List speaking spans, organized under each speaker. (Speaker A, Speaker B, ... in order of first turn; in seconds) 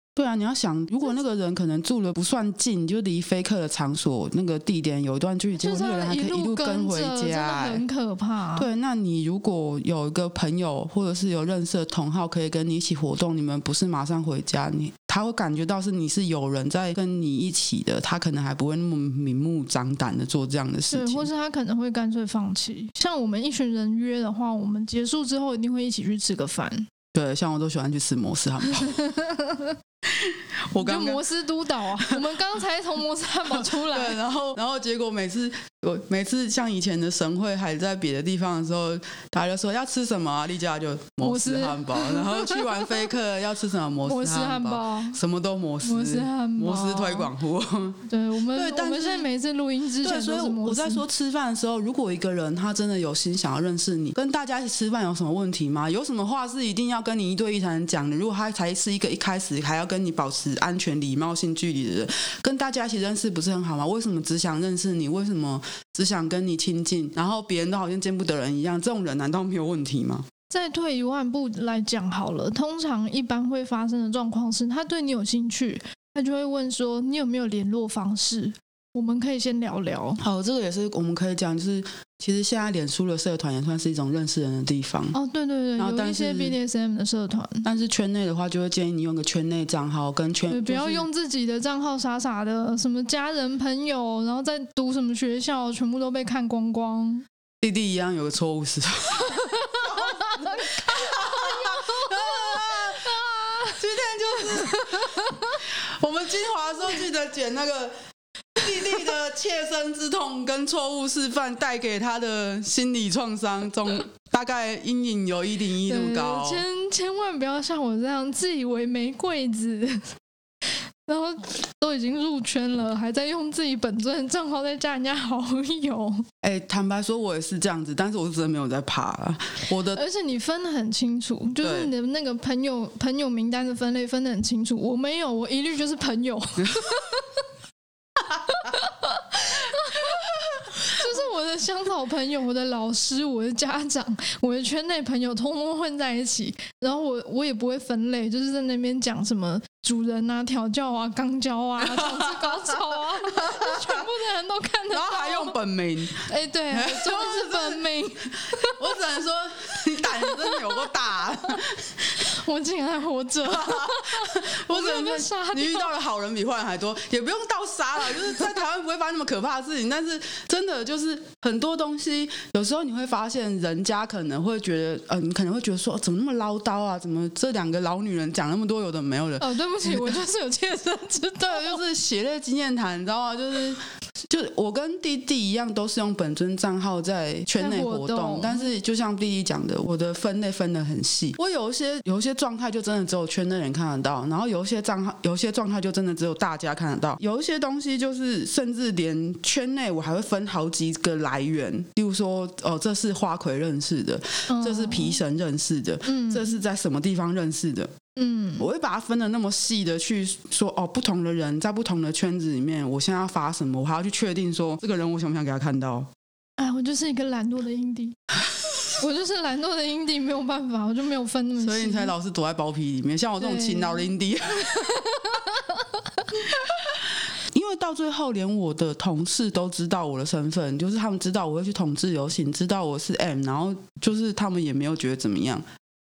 Speaker A: 0.1-7.8, 8.6-21.3, 27.1-29.0, 30.1-31.2, 31.8-32.3, 33.5-49.3, 50.0-70.2, 80.2-85.2, 85.8-86.5, 87.6-91.1, 97.6-107.9, 108.5-116.6, 126.4-130.0, 131.6-131.9, 136.6-136.9, 151.8-154.1, 154.9-162.2, 163.5-180.2, 181.4-207.9, 208.6-216.1, 221.6-225.0, 227.4-235.6
Speaker B: 5.5-8.7, 20.9-26.9, 28.8-29.8, 30.8-34.2, 41.2-43.1, 44.0-45.2, 45.8-47.3, 48.1-51.0, 70.5-80.2, 85.1-87.6, 90.5-97.2, 99.3-105.6, 115.8-120.1, 120.6-126.2, 129.9-137.4, 138.5-155.6, 156.1-158.9, 160.2-160.9, 161.4-165.9, 168.1-168.5, 179.4-181.8, 187.6-188.7, 204.5-205.2, 206.0-206.6, 208.2-208.7, 216.6-218.2, 218.9-222.1, 223.4-226.2